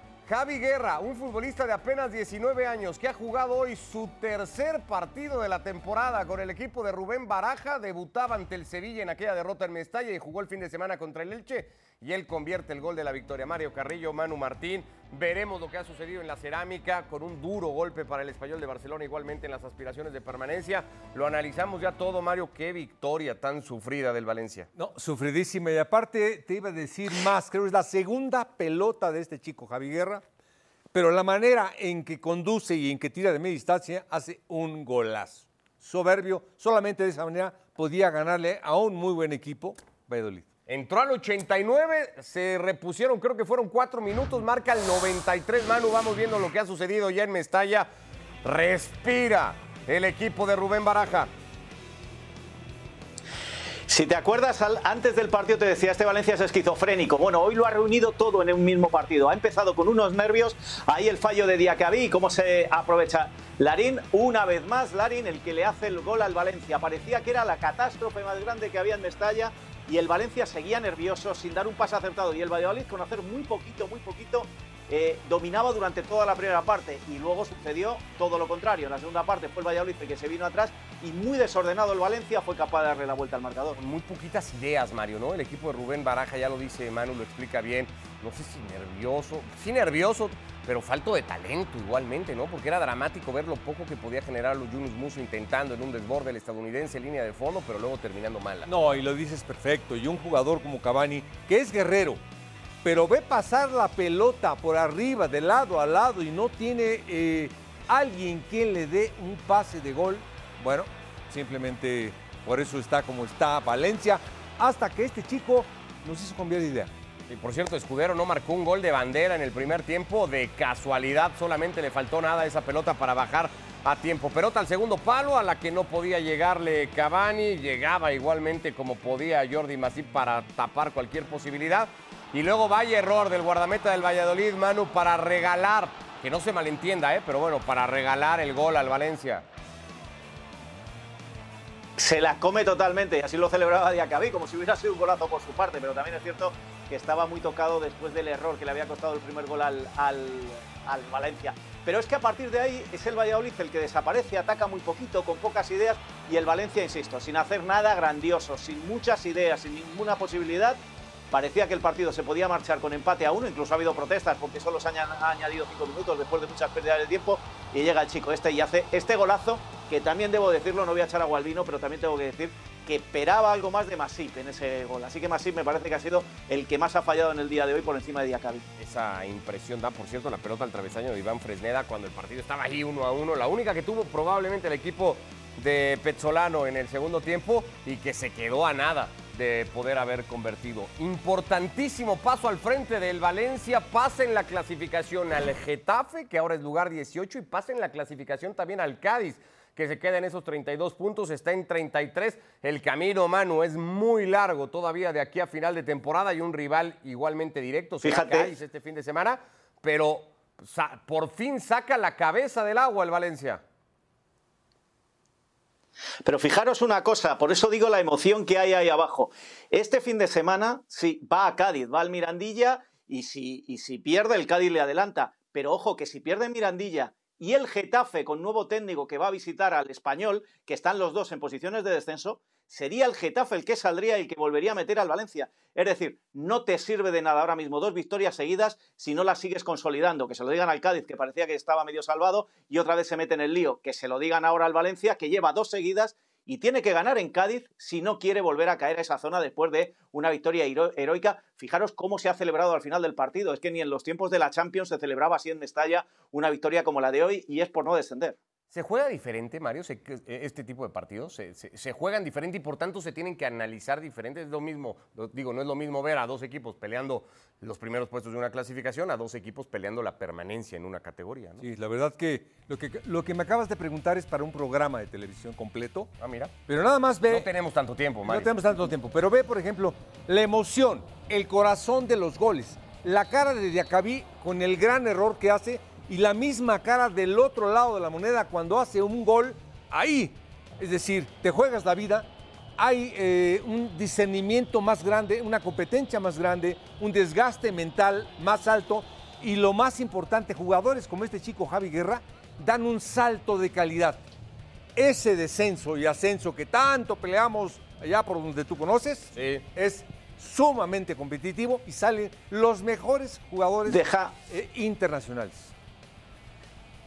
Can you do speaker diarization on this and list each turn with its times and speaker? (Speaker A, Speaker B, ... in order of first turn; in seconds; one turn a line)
Speaker A: 0.2-24.7
Speaker B: 24.7-30.2
Speaker B: 30.9-40.5
Speaker A: 40.7-47.9
Speaker A: 48.4-51.3
Speaker C: 53.9-83.8
Speaker A: 83.8-98.7
Speaker B: 98.7-102.2
Speaker B: 102.8-116.9
Speaker A: 117.3-139.4
Speaker C: 142.0-160.8
Speaker C: 161.3-178.6
Speaker A: 178.8-213.6
Speaker C: 208.0-208.5
Speaker C: 216.2-258.4
Speaker A: 258.7-271.6
Speaker B: 271.6-276.1
Speaker A: 276.2-276.5
Speaker B: 276.7-277.5
Speaker A: 277.3-278.5
Speaker B: 278.2-304.2
Speaker B: 304.9-315.7
Speaker A: 309.4-309.6
Speaker C: 313.9-314.3